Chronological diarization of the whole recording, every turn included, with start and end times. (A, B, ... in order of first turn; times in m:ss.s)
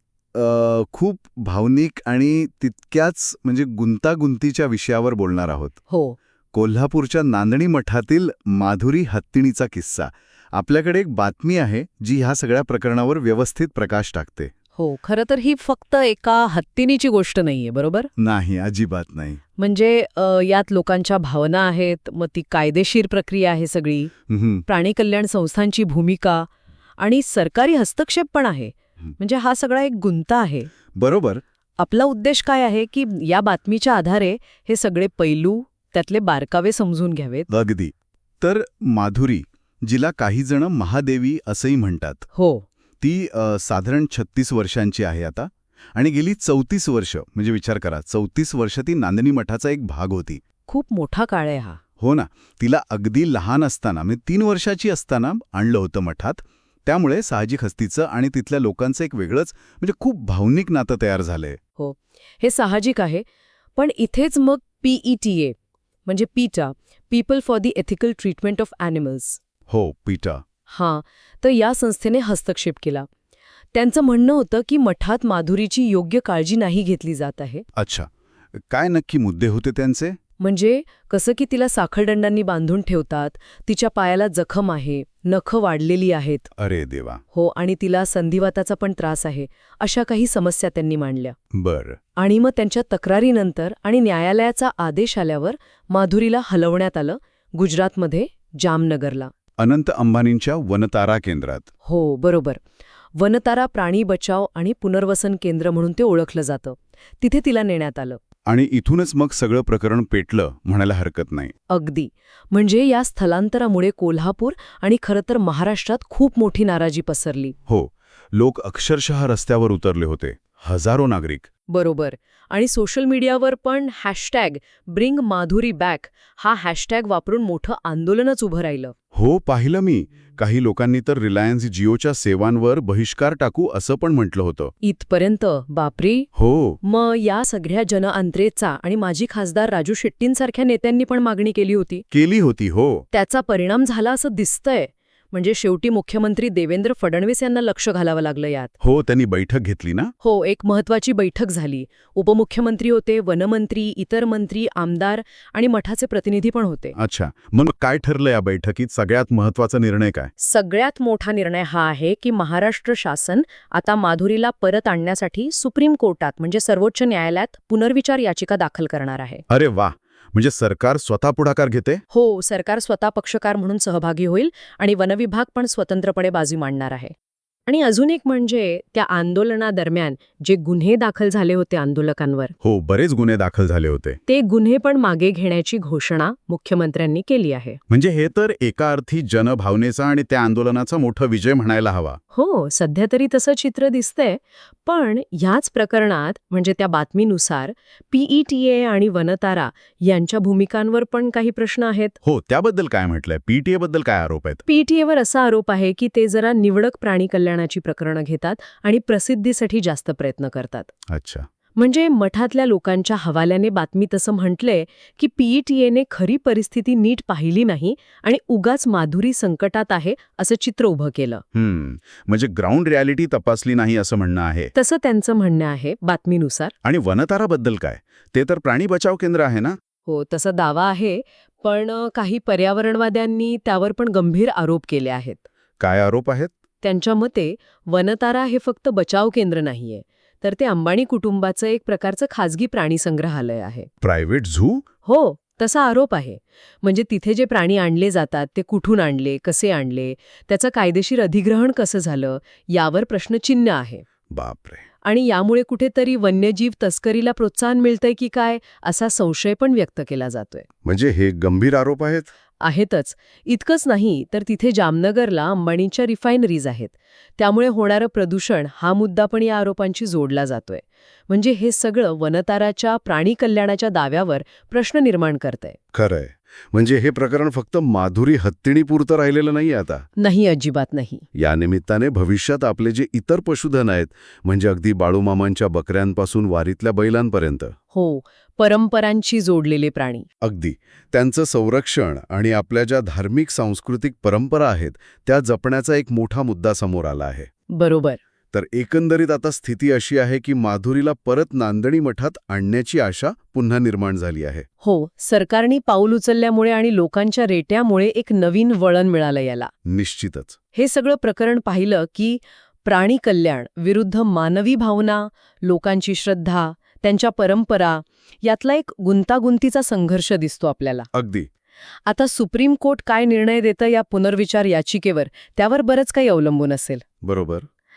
0:00.3-0:05.8 A
0:05.9-0:06.2 B
0:06.5-0:14.5 A
0:14.8-0:18.1 B
0:18.2-0:19.4 A
0:19.6-0:24.1 B
0:24.3-0:24.6 A
0:24.7-0:30.7 B
0:30.9-0:31.4 A
0:31.8-0:37.5 B
0:37.5-0:42.2 A
0:42.3-0:42.6 B
0:43.0-0:50.4 A
0:50.7-0:51.8 B
0:52.0-1:01.6 A
1:01.8-1:03.2 B
1:03.8-1:05.5 B
1:06.0-1:09.4 B
1:09.7-1:10.4 A
1:10.7-1:13.1 B
1:13.7-1:17.6 B
1:17.7-1:20.2 A
1:20.4-1:26.5 B
1:26.5-1:27.2 A
1:27.3-1:31.3 B
1:31.5-1:32.0 A
1:32.2-1:39.3 B
1:39.6-1:41.7 A
1:41.8-1:42.6 B
1:43.2-1:48.2 B
1:48.4-1:51.5 A
1:51.7-1:57.6 B
1:57.7-2:01.5 A
2:01.7-2:08.9 B
2:09.1-2:14.7 A
2:14.8-2:16.3 B
2:16.3-2:16.8 A
2:16.8-2:22.0 B
2:22.1-2:23.0 A
2:23.1-2:28.7 B
2:28.8-2:30.1 A
2:30.2-2:36.9 B
2:36.9-2:40.3 A
2:40.4-2:49.4 B
2:49.5-2:52.0 A
2:52.1-2:57.1 B
2:57.7-3:02.5 B
3:02.6-3:04.2 A
3:04.3-3:07.8 B
3:07.9-3:12.2 A
3:12.3-3:22.2 B
3:22.2-3:24.6 A
3:24.7-3:30.9 B
3:31.1-3:31.5 A
3:31.8-3:41.4 B
3:41.5-3:44.7 A
3:44.7-3:46.7 B
3:46.8-3:49.8 A
3:50.1-3:55.4 B
3:55.8-3:56.5 A
3:56.8-4:03.9 B
4:04.0-4:04.8 A
4:05.0-4:14.0 B
4:14.3-4:14.8 A
4:15.0-4:20.6 B
4:20.8-4:22.3 A
4:22.6-4:35.8 B
4:35.9-4:40.0 A
4:40.2-4:41.2 B
4:41.4-4:47.7 A
4:47.9-4:50.3 B
4:50.4-4:57.5 A
4:57.7-4:58.2 B
4:58.5-5:04.6 A
5:04.8-5:09.7 B
5:09.8-5:10.6 A
5:10.7-5:21.1 B
5:21.1-5:21.5 A
5:22.0-5:27.0 B
5:27.2-5:27.7 A